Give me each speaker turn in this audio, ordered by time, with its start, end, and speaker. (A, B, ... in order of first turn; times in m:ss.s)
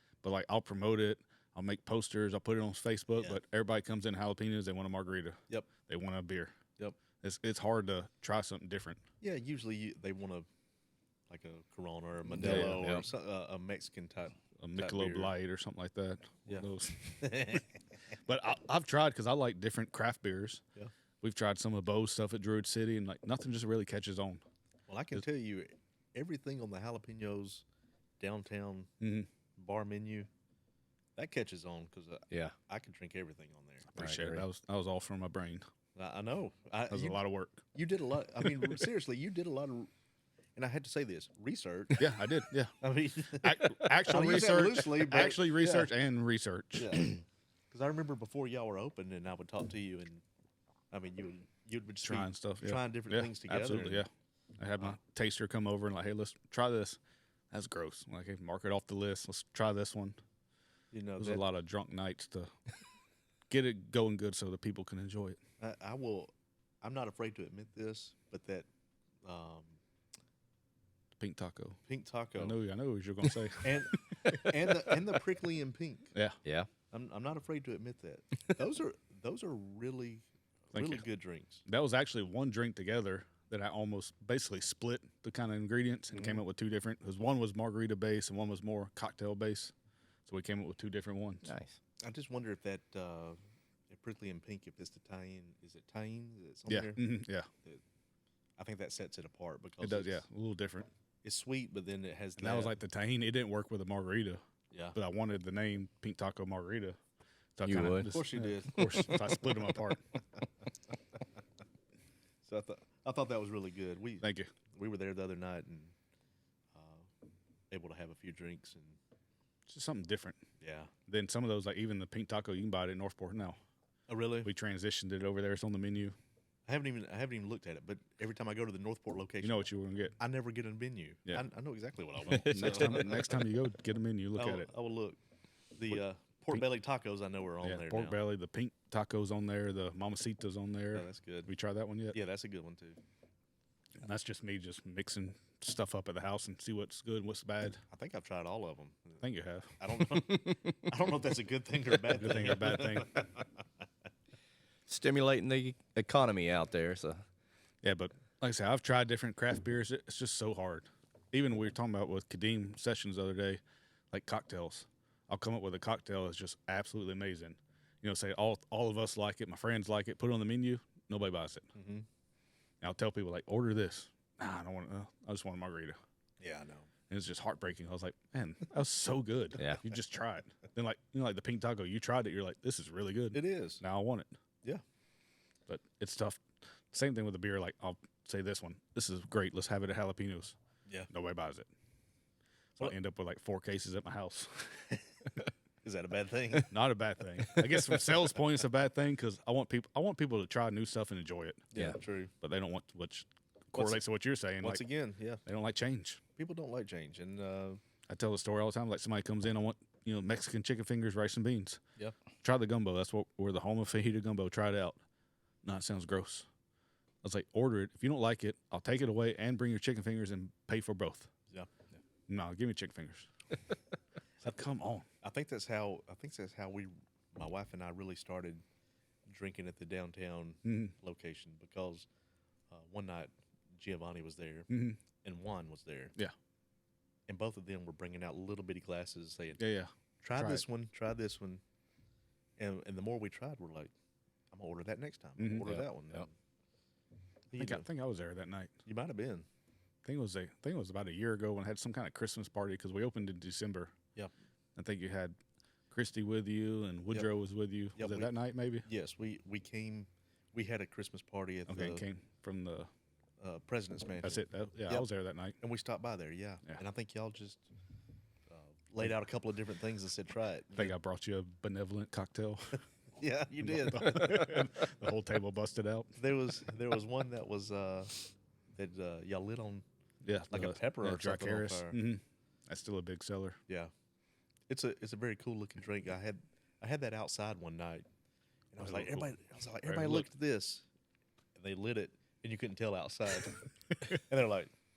0:00.2-0:06.5 A
0:07.2-0:09.0 A
0:09.2-0:10.5 B
0:11.3-0:15.3 B
0:12.4-0:13.0 C
0:12.4-0:12.9 A
0:14.6-0:17.6 A
0:17.2-0:17.6 B
0:18.2-0:20.6 A
0:21.2-0:24.4 A
0:24.9-0:27.6 B
0:28.2-0:28.9 B
0:29.0-0:29.3 A
0:29.6-0:30.3 B
0:31.2-0:34.2 B
0:34.0-0:35.6 A
0:34.0-0:34.4 C
0:36.0-0:37.2 B
0:36.9-0:37.6 A
0:37.7-0:39.9 B
0:40.6-0:42.1 B
0:42.0-0:42.8 A
0:42.8-0:45.9 B
0:43.3-0:47.1 A
0:46.8-0:50.2 B
0:50.9-0:54.1 B
0:52.0-0:57.0 A
0:57.5-1:00.2 A
1:00.9-1:01.4 B
1:01.2-1:02.5 A
1:03.5-1:05.4 A
1:05.6-1:08.7 B
1:09.2-1:09.8 B
1:11.2-1:11.8 A
1:11.9-1:12.6 B
1:12.4-1:14.4 A
1:13.6-1:16.1 B
1:16.9-1:21.6 B
1:20.7-1:21.0 A
1:21.7-1:29.7 A
1:26.1-1:26.4 B
1:30.3-1:31.5 A
1:31.5-1:31.8 C
1:32.0-1:33.4 B
1:33.9-1:37.1 B
1:36.7-1:37.5 A
1:38.6-1:40.2 B
1:39.8-1:40.9 A
1:41.2-1:42.8 B
1:42.4-1:44.4 A
1:44.9-1:47.0 A
1:47.6-1:50.0 A
1:47.6-1:48.1 C
1:48.1-1:49.6 B
1:52.4-1:55.9 B
1:54.2-1:54.5 A
1:56.8-1:57.0 B
1:57.7-1:59.0 B
1:59.7-2:00.4 A
2:00.6-2:00.9 B
2:01.1-2:03.6 A
2:04.1-2:04.5 B
2:04.4-2:06.1 A
2:06.7-2:09.6 B
2:09.4-2:10.2 A
2:10.2-2:13.2 B
2:12.3-2:13.4 C
2:12.5-2:14.7 A
2:14.4-2:15.2 B
2:15.8-2:18.2 B
2:17.6-2:22.2 A
2:20.9-2:21.5 B
2:22.1-2:23.0 B
2:24.0-2:27.8 A
2:27.9-2:29.2 B
2:29.2-2:29.8 A
2:29.8-2:33.5 B
2:32.1-2:33.1 A
2:34.9-2:37.2 C
2:37.8-2:51.7 A
2:51.7-2:52.0 B
2:52.8-2:56.0 A
2:56.4-2:56.9 B
2:57.1-3:04.3 A
3:03.3-3:03.8 B
3:05.7-3:06.4 A
3:06.9-3:10.6 A
3:11.1-3:11.7 A
3:12.8-3:14.8 A
3:15.8-3:16.7 B
3:16.7-3:21.6 A
3:21.7-3:22.3 B
3:22.4-3:24.8 A
3:23.7-3:24.0 B
3:24.6-3:25.4 B
3:25.4-3:26.2 A
3:26.4-3:27.8 B
3:28.1-3:31.8 A
3:32.4-3:35.0 A
3:35.6-3:36.5 A
3:37.2-3:41.3 A
3:42.3-3:43.3 A
3:44.4-3:45.0 A
3:45.2-3:48.6 B
3:49.3-3:52.0 B
3:50.6-3:50.9 A
3:52.7-3:54.7 B
3:54.7-3:55.0 A
3:55.2-3:56.1 B
3:57.3-3:59.6 B
3:59.6-4:00.6 A
4:00.2-4:01.6 B
4:02.6-4:03.9 B
4:04.5-4:06.3 B
4:05.4-4:05.7 A
4:05.6-4:06.2 C
4:07.5-4:07.9 B
4:07.6-4:08.7 A
4:08.8-4:09.4 B
4:10.0-4:13.9 A
4:14.8-4:15.4 A
4:15.9-4:18.8 A
4:18.0-4:18.3 B
4:18.8-4:22.1 B
4:21.7-4:22.9 A
4:23.4-4:25.1 B
4:24.2-4:25.6 A
4:25.6-4:27.6 B
4:28.5-4:30.9 B
4:30.8-4:32.8 A
4:33.2-4:34.6 B
4:33.6-4:36.1 A
4:36.2-4:39.8 B
4:40.2-4:43.6 A
4:40.5-4:42.0 B
4:44.7-4:48.0 B
4:48.7-4:50.8 B
4:48.8-4:49.3 A
4:49.8-4:50.3 A
4:51.6-4:54.7 B